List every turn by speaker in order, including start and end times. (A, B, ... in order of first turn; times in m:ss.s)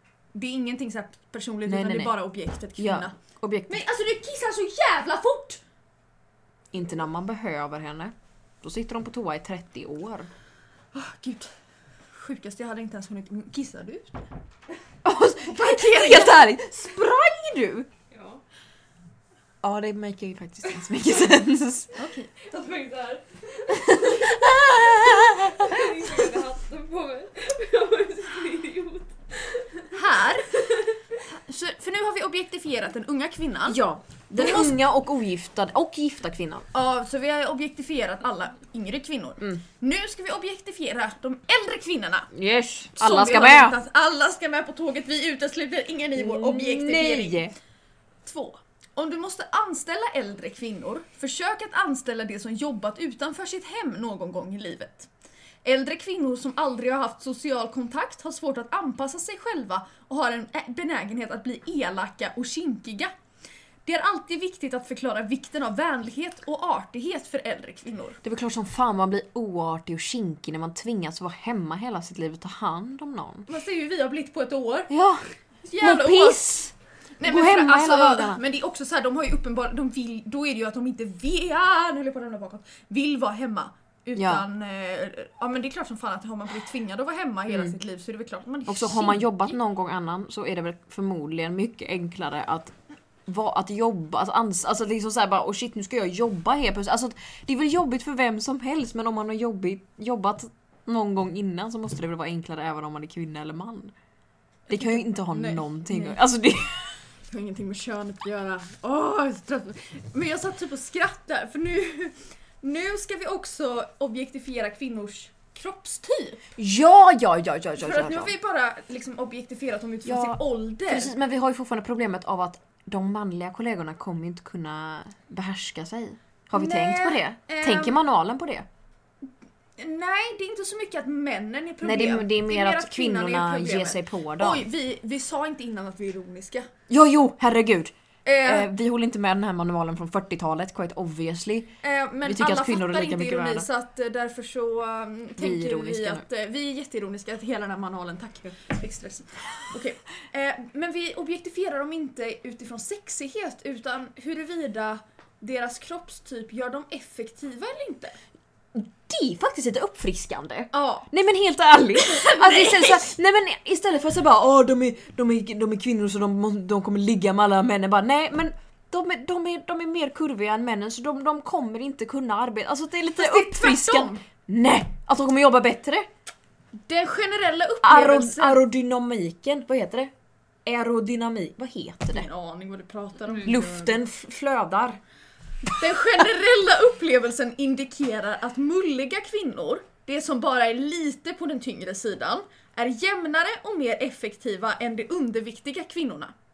0:00.3-0:03.1 A
0:01.6-0:02.1 B
0:02.8-0:03.8 B
0:03.7-0:05.6 A
0:06.7-0:10.3 B
0:10.9-0:11.5 A
0:12.1-0:14.3 A
0:15.0-0:17.9 B
0:15.5-0:16.3 A
0:18.1-0:18.4 C
0:19.6-0:21.9 B
0:21.9-0:22.3 A
0:22.4-0:29.9 C
0:23.7-0:26.0 B
0:29.9-0:30.5 A
0:30.5-0:31.0 C
0:31.2-0:33.8 A
0:33.7-0:36.6 B
0:34.3-0:34.7 A
0:36.7-0:42.3 A
0:42.3-0:43.8 B
0:43.0-0:47.5 A
0:46.2-0:47.5 B
0:48.2-0:55.1 A
0:55.6-1:03.1 A
1:03.8-1:08.2 A
1:08.2-1:13.5 B
1:13.5-1:14.9 A
1:14.9-1:15.2 B
1:15.6-1:16.5 A
1:15.8-1:18.4 B
1:17.2-1:29.3 A
1:24.2-1:24.4 B
1:28.7-1:32.7 B
1:33.3-1:43.9 B
1:44.7-1:46.2 A
1:44.7-1:47.0 B
1:47.3-1:56.4 A
1:56.6-1:58.3 B
1:57.8-2:01.1 A
2:00.0-2:08.6 B
2:06.5-2:08.0 A
2:09.8-2:16.7 A
2:11.8-2:14.6 B
2:16.9-2:21.7 B
2:18.2-2:18.7 A
2:21.8-2:38.2 A
2:22.2-2:23.7 B
2:25.4-2:26.2 B
2:38.7-2:56.1 B
2:40.7-2:41.1 A
2:42.0-2:43.0 A
2:53.2-2:54.2 A
2:56.8-2:58.6 A
2:57.8-3:00.1 B
3:00.6-3:02.3 B
3:02.1-3:04.0 A
3:03.4-3:05.0 B
3:05.7-3:16.3 A